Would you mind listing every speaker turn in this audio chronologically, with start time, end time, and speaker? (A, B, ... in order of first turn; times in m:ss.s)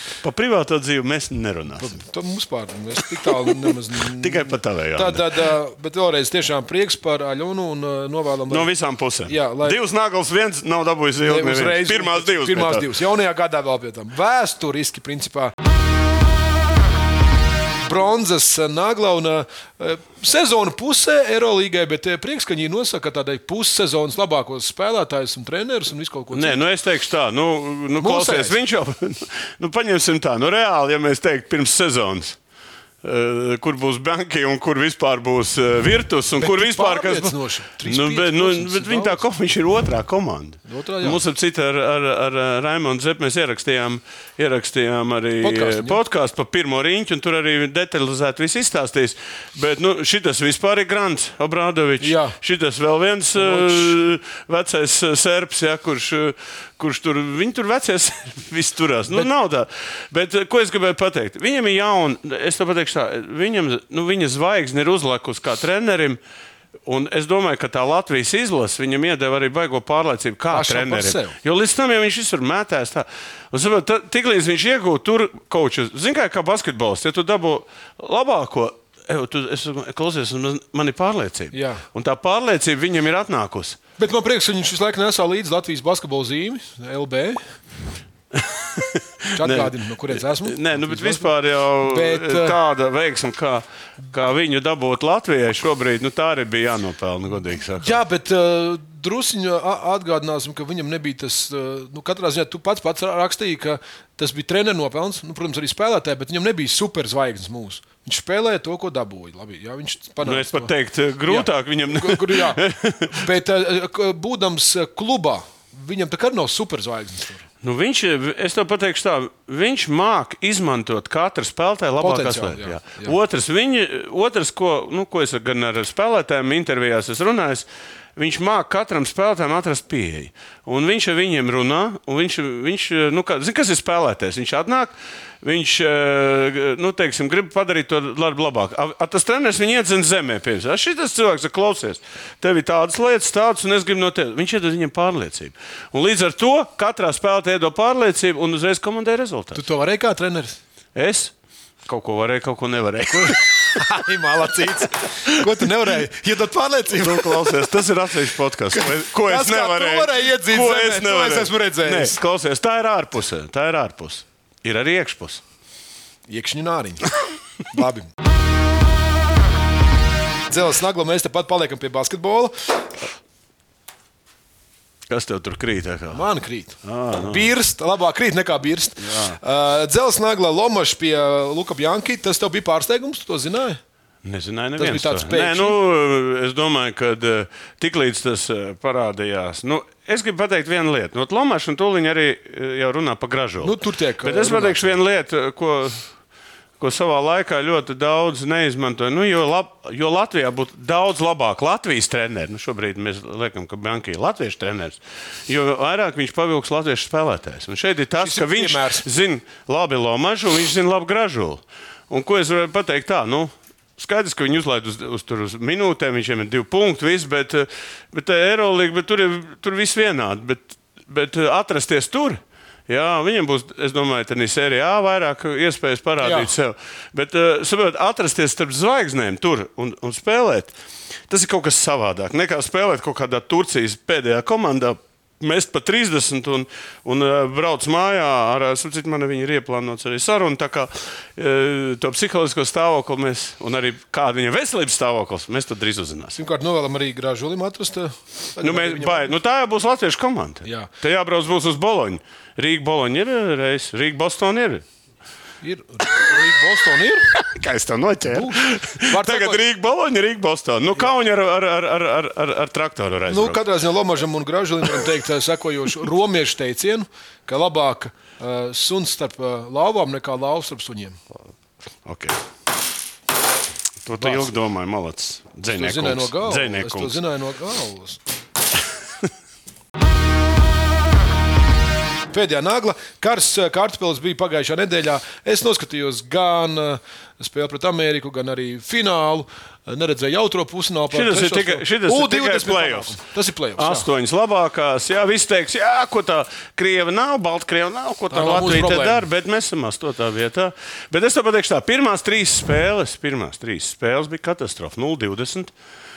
0:00.2-0:02.0 A
0:01.8-0:08.7 B
0:03.5-0:05.5 A
0:08.5-0:12.9 A
0:09.3-0:09.8 B
0:11.2-0:15.5 B
0:17.8-0:26.6 B
0:26.3-0:32.4 A
0:28.0-0:28.6 B
0:33.0-1:06.2 A
0:36.4-0:39.2 B
0:40.7-0:41.2 B
0:45.4-0:46.0 B
0:52.0-0:52.4 B
0:53.4-0:54.0 B
1:06.8-1:23.8 A
1:10.5-1:11.4 B
1:21.5-1:21.8 B
1:24.0-1:27.4 B
1:28.3-1:38.0 A
1:29.4-1:31.3 B
1:31.8-1:32.6 B
1:37.8-1:50.7 B
1:50.2-1:53.2 A
1:51.3-1:57.4 B
1:57.6-2:29.6 A
2:02.0-2:03.2 B
2:29.6-2:30.6 B
2:31.0-2:31.3 A
2:31.9-2:33.8 A
2:33.1-2:37.7 B
2:36.9-2:45.4 A
2:38.7-2:42.2 B
2:46.3-2:47.1 B
2:47.7-2:48.1 B
2:50.5-2:52.9 B
2:55.1-2:56.2 A
2:56.1-3:03.8 B
2:56.8-2:57.5 A
2:59.0-2:59.4 A
3:04.2-3:16.0 A
3:04.8-3:05.8 B
3:13.6-3:14.8 B
3:16.8-3:50.7 A
3:28.2-3:29.1 B
3:46.2-3:46.5 B
3:51.3-4:06.4 A
4:06.3-4:09.3 B
4:08.6-4:14.8 A
4:10.6-4:10.9 B
4:15.6-4:17.3 B
4:17.3-4:23.6 A
4:18.3-4:19.6 B
4:23.3-4:31.2 B
4:32.0-4:32.4 A
4:34.0-4:37.2 A
4:34.2-4:34.5 B
4:35.7-4:38.2 B
4:42.3-4:54.1 B
4:51.1-4:53.2 A
4:53.8-5:05.7 A
4:58.3-4:59.2 B